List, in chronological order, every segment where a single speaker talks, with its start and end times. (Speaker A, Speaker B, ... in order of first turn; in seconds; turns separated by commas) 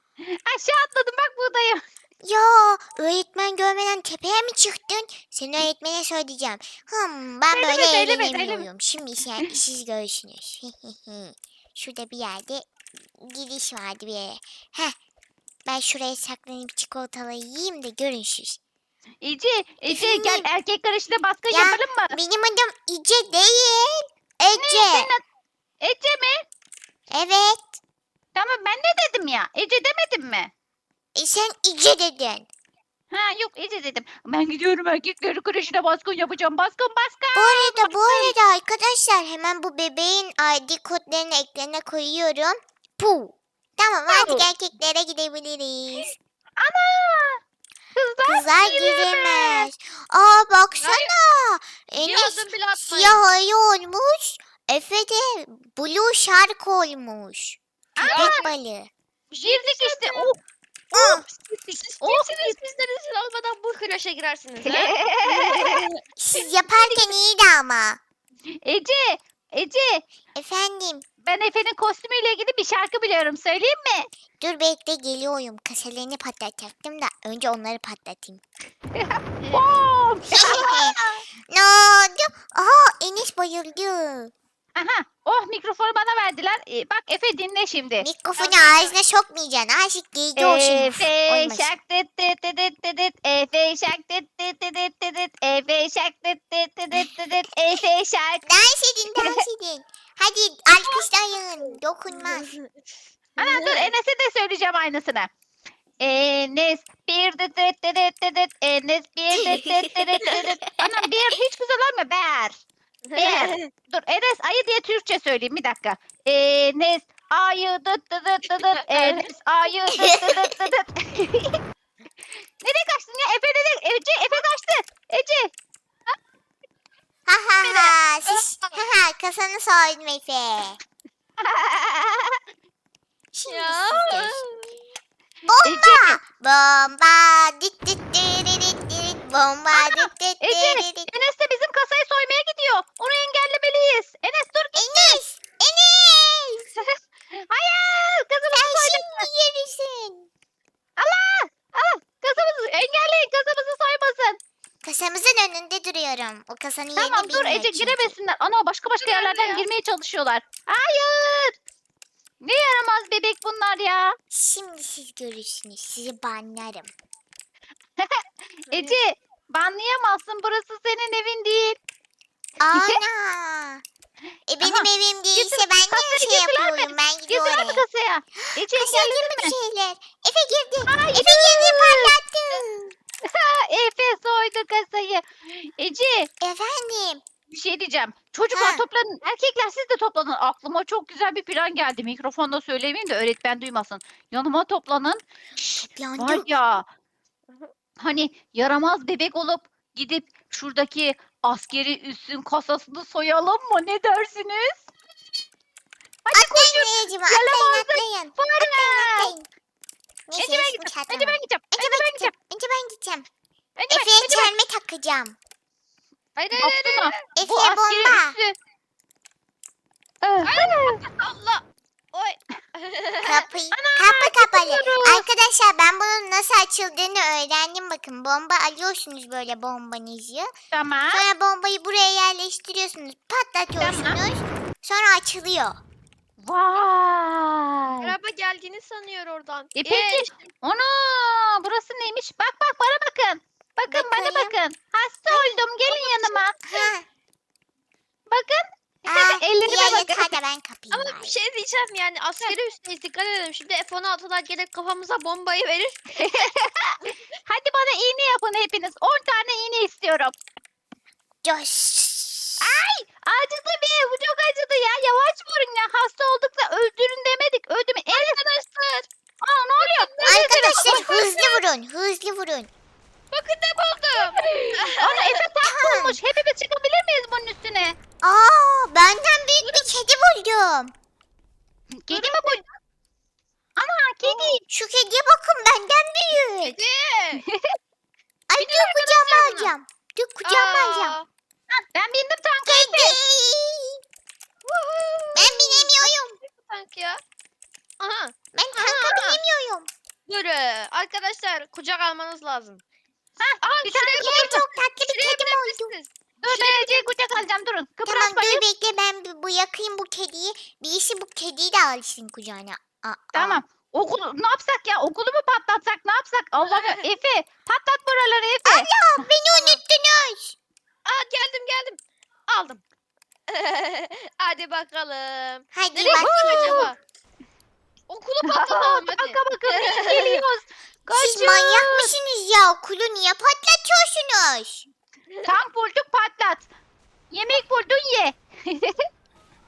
Speaker A: 0.2-1.8, Speaker B: 2.2-15.0, Speaker A: 7.5-8.7, Speaker B: 15.7-18.6, Speaker A: 19.2-22.2, Speaker B: 19.9-20.5, Speaker B: 21.5-25.1, Speaker A: 24.6-25.2, Speaker A: 25.8-26.4, Speaker B: 27.1-27.8, Speaker A: 28.4-30.5, Speaker B: 31.1-32.5, Speaker A: 33.1-38.4, Speaker B: 37.4-46.1, Speaker A: 44.1-44.5, Speaker A: 46.6-47.4, Speaker A: 48.0-49.7, Speaker B: 48.2-57.6, Speaker C: 50.8-51.1, Speaker C: 52.0-53.2, Speaker A: 58.0-58.4, Speaker C: 58.0-58.5, Speaker B: 58.1-58.9, Speaker C: 59.3-60.3, Speaker A: 59.4-60.4, Speaker B: 60.9-61.3, Speaker C: 61.0-66.0, Speaker A: 61.0-62.6, Speaker A: 64.6-65.9, Speaker B: 66.2-68.0, Speaker A: 66.7-67.1, Speaker A: 68.6-70.0, Speaker B: 70.3-71.0, Speaker A: 71.2-74.1, Speaker B: 74.4-78.4, Speaker A: 78.9-81.2, Speaker C: 79.4-79.7, Speaker B: 80.3-84.3, Speaker A: 84.8-88.9, Speaker B: 88.0-91.8, Speaker A: 90.4-98.5, Speaker B: 98.5-102.6, Speaker A: 99.2-99.4, Speaker C: 102.1-102.9, Speaker A: 103.4-105.3, Speaker C: 103.4-103.9, Speaker A: 106.0-112.6, Speaker C: 113.1-113.7, Speaker A: 113.2-121.6, Speaker C: 118.8-119.3, Speaker B: 119.9-120.7, Speaker A: 122.6-125.5, Speaker B: 127.3-130.8, Speaker A: 127.6-127.9, Speaker A: 131.4-132.4, Speaker B: 133.3-134.4, Speaker C: 133.5-134.9, Speaker B: 135.5-141.1, Speaker A: 135.6-136.2, Speaker A: 139.7-145.2, Speaker B: 144.8-146.7, Speaker A: 146.8-149.3, Speaker B: 148.5-150.3, Speaker A: 151.0-154.4, Speaker B: 154.8-158.1, Speaker A: 157.0-161.5, Speaker C: 159.0-159.7, Speaker A: 162.4-164.2, Speaker B: 164.3-166.9, Speaker A: 168.0-171.8, Speaker C: 168.7-169.0, Speaker B: 172.6-173.8, Speaker A: 172.7-173.0, Speaker B: 174.5-177.8, Speaker A: 174.6-179.6, Speaker B: 178.4-182.9, Speaker A: 180.9-182.6, Speaker A: 183.2-186.3, Speaker B: 186.4-187.2, Speaker A: 187.5-196.9, Speaker B: 188.5-188.8, Speaker B: 195.9-196.5, Speaker A: 198.0-204.9, Speaker A: 206.2-209.3, Speaker B: 206.3-209.5, Speaker B: 210.3-213.3, Speaker A: 210.4-212.3, Speaker A: 213.8-214.5, Speaker B: 213.9-215.4, Speaker C: 216.4-217.2, Speaker A: 216.6-218.5, Speaker B: 217.4-218.4, Speaker A: 220.2-221.0, Speaker C: 220.4-223.5, Speaker B: 223.2-230.5, Speaker A: 223.7-225.2, Speaker A: 230.7-231.2, Speaker B: 231.1-235.8, Speaker A: 233.8-234.2, Speaker A: 236.4-238.1, Speaker C: 238.0-240.4, Speaker A: 239.8-246.9, Speaker B: 243.9-244.6, Speaker C: 245.8-246.5, Speaker B: 246.6-247.1, Speaker A: 248.3-250.4, Speaker B: 249.1-251.4, Speaker C: 250.9-256.5, Speaker A: 256.2-260.3, Speaker B: 261.4-262.7, Speaker A: 262.6-268.4, Speaker C: 268.1-269.1, Speaker A: 269.4-271.5, Speaker C: 269.8-271.2, Speaker B: 270.2-272.7, Speaker C: 273.3-275.5, Speaker A: 274.4-278.0, Speaker B: 275.6-276.2, Speaker B: 278.2-280.9, Speaker C: 279.6-280.0, Speaker A: 281.9-282.6, Speaker C: 282.1-282.7, Speaker A: 283.8-284.6, Speaker B: 284.2-286.8, Speaker C: 286.6-287.5, Speaker A: 287.4-287.8, Speaker B: 288.5-291.2, Speaker C: 288.5-289.7, Speaker C: 290.4-291.3, Speaker A: 291.7-293.2, Speaker B: 292.7-294.0, Speaker C: 294.6-297.2, Speaker B: 295.4-296.4, Speaker C: 298.0-299.4, Speaker B: 298.5-299.9, Speaker C: 300.3-302.8, Speaker A: 303.4-304.6, Speaker C: 303.6-307.4, Speaker B: 304.2-305.9, Speaker A: 306.4-308.6, Speaker B: 308.1-313.6, Speaker A: 313.3-319.2, Speaker C: 316.7-317.0, Speaker B: 318.6-320.6, Speaker C: 319.5-319.8, Speaker C: 321.1-322.8, Speaker C: 323.5-327.0, Speaker B: 325.7-326.9, Speaker A: 326.1-326.9, Speaker C: 328.1-330.4, Speaker A: 328.4-332.1, Speaker B: 331.1-334.9, Speaker A: 335.4-336.7, Speaker A: 337.3-339.1